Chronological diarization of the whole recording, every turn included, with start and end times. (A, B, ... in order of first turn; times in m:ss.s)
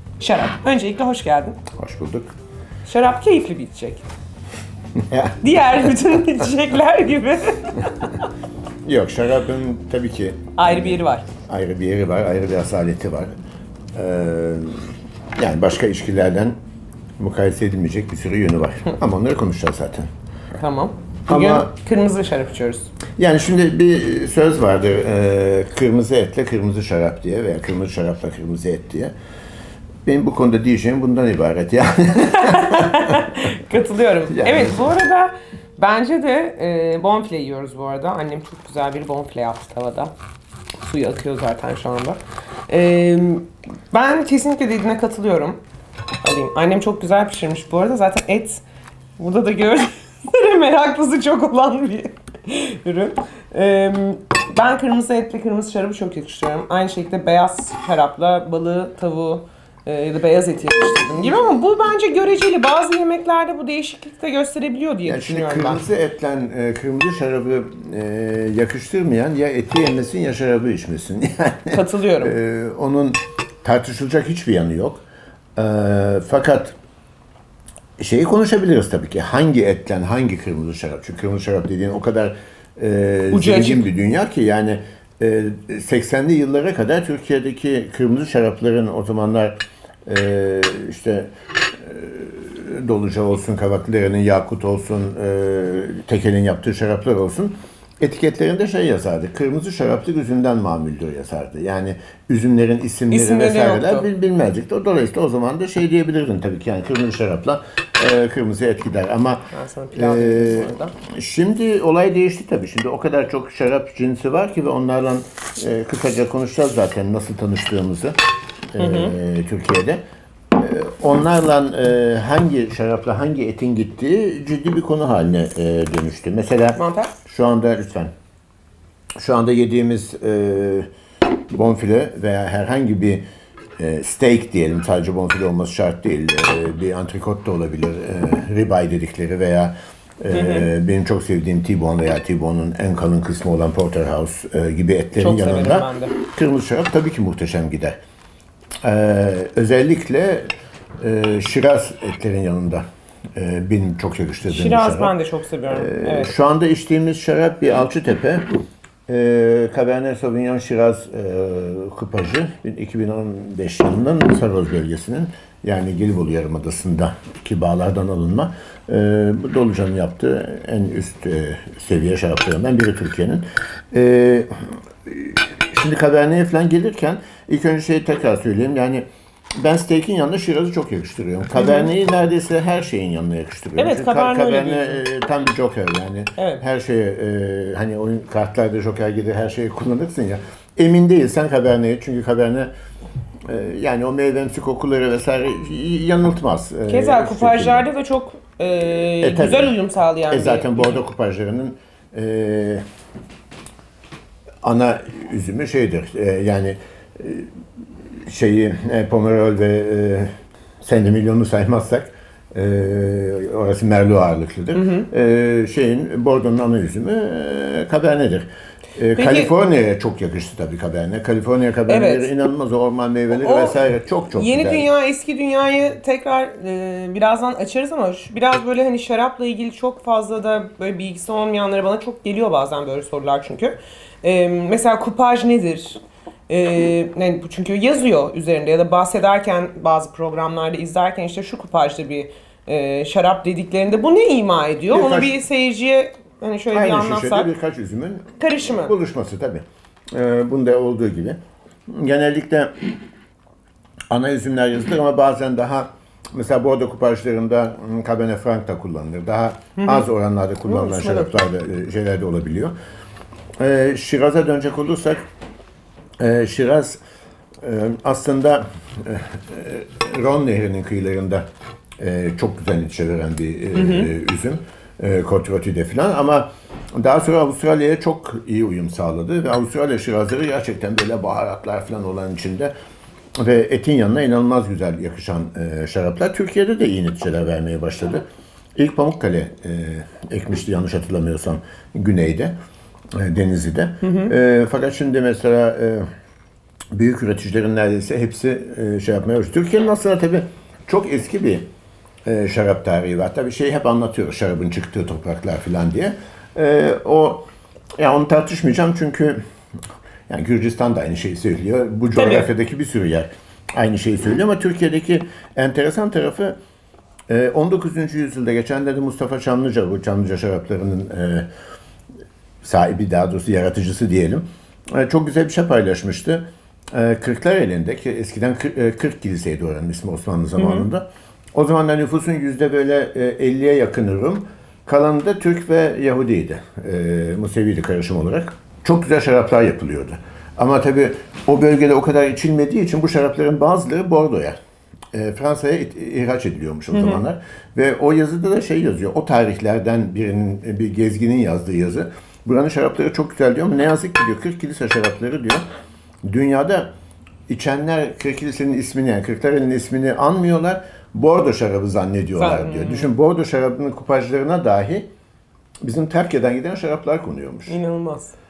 0:00.2-0:01.6 A
0:01.7-0:02.3 B
0:02.8-0:04.0 A
0:05.0-0:05.8 B
0:05.4-0:08.2 A
0:08.8-0:13.3 B
0:10.6-0:11.3 A
0:13.9-0:16.5 B
0:17.2-0:20.1 B
0:20.6-0:22.9 A
0:21.3-0:21.7 B
0:23.2-0:29.1 B
0:30.0-0:33.3 B
0:32.3-0:40.1 A
0:34.3-0:34.9 B
0:40.8-0:45.6 A
0:46.2-0:48.6 A
0:49.2-1:05.8 A
1:05.0-1:15.0 B
1:11.7-1:12.4 A
1:15.6-1:16.8 B
1:18.0-1:58.2 B
1:23.3-1:23.9 A
1:43.1-1:44.1 A
1:49.5-1:50.9 A
1:58.7-2:00.0 B
1:58.8-1:59.1 A
2:00.5-2:08.1 B
2:06.8-2:07.1 A
2:09.2-2:10.9 B
2:11.5-2:13.2 B
2:13.8-2:28.0 B
2:20.3-2:20.6 A
2:25.2-2:26.1 A
2:28.8-2:35.1 B
2:34.5-2:36.3 A
2:35.7-2:38.5 B
2:39.1-2:59.0 B
2:59.6-3:12.7 B
3:01.6-3:01.9 A
3:03.8-3:05.0 A
3:06.4-3:06.6 A
3:13.4-3:17.9 B
3:16.9-3:21.0 A
3:19.2-3:19.7 B
3:20.3-3:22.8 B
3:24.6-3:27.5 B
3:28.2-3:44.9 B
3:34.7-3:35.1 A
3:39.2-3:39.5 A
3:41.9-3:42.3 A
3:43.3-3:43.8 A
3:44.3-4:07.5 A
4:04.9-4:05.4 B
4:06.7-4:12.7 B
4:08.4-4:08.9 A
4:14.1-4:22.7 B
4:19.8-4:20.0 A
4:20.7-4:21.4 A
4:23.6-4:25.2 B
4:26.2-4:27.0 B
4:27.6-4:31.4 B
4:32.0-4:42.7 B
4:33.7-4:34.1 A
4:43.4-4:52.5 B
4:53.1-4:56.1 B
4:54.0-4:54.3 A
4:56.9-5:01.7 B
5:02.2-5:07.4 B
5:08.0-5:09.4 B
5:10.3-5:16.5 B
5:12.2-5:12.5 A
5:17.3-5:21.5 B
5:22.6-5:44.6 B
5:30.6-5:30.9 A
5:45.1-5:55.6 B
5:46.9-5:47.2 A
5:56.2-5:56.9 B
5:57.5-6:05.1 B
6:02.4-6:03.1 A
6:05.8-6:07.8 B
6:07.7-6:08.3 A